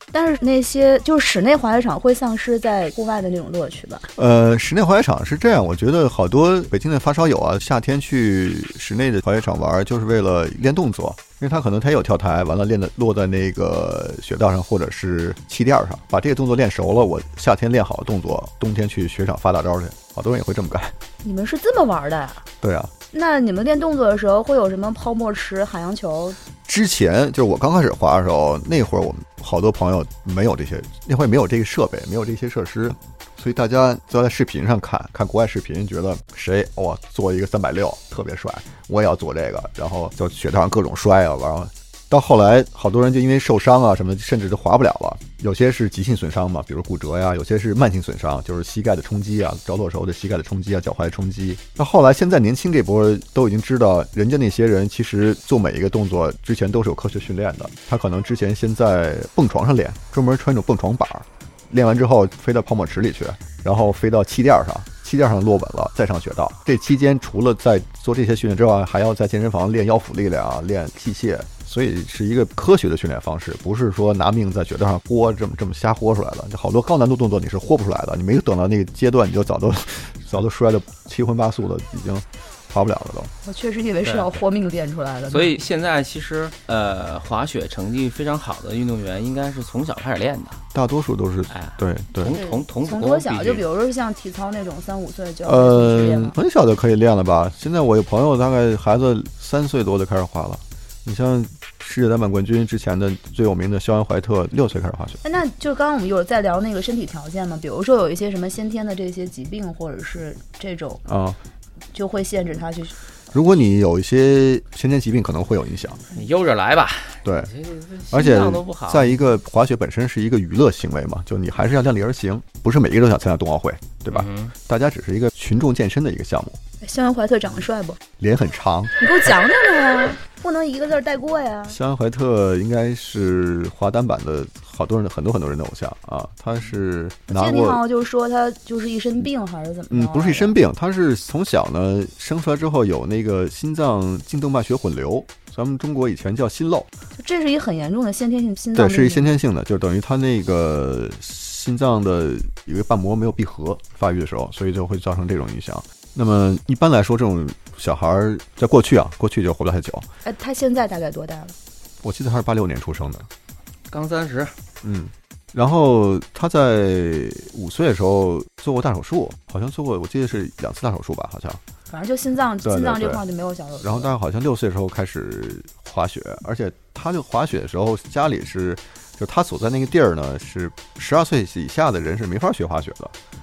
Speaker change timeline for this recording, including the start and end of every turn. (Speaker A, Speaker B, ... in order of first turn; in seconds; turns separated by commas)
Speaker A: 0.1-4.1, Speaker B: 4.2-21.0, Speaker A: 21.2-22.4, Speaker B: 22.6-22.9, Speaker A: 23.1-26.4, Speaker B: 26.6-83.3, Speaker A: 83.5-85.6, Speaker C: 84.0-84.3, Speaker C: 85.3-90.6, Speaker B: 90.7-92.4, Speaker C: 91.5-93.6, Speaker A: 92.3-96.4, Speaker B: 95.4-105.2, Speaker A: 105.2-111.0, Speaker B: 111.1-111.4, Speaker A: 111.9-112.9, Speaker B: 113.3-116.0, Speaker C: 116.1-119.1, Speaker B: 117.2-117.5, Speaker B: 118.1-126.6, Speaker C: 124.1-124.5, Speaker A: 126.8-128.0, Speaker B: 128.2-128.9, Speaker A: 129.0-131.8, Speaker B: 131.7-137.8, Speaker A: 137.3-140.6, Speaker B: 139.9-146.9, Speaker A: 147.2-149.3, Speaker B: 148.8-160.1, Speaker A: 160.2-161.6, Speaker B: 162.0-163.3, Speaker C: 163.9-164.5, Speaker B: 164.8-171.6, Speaker A: 171.9-174.1, Speaker B: 172.6-173.2, Speaker B: 173.8-183.2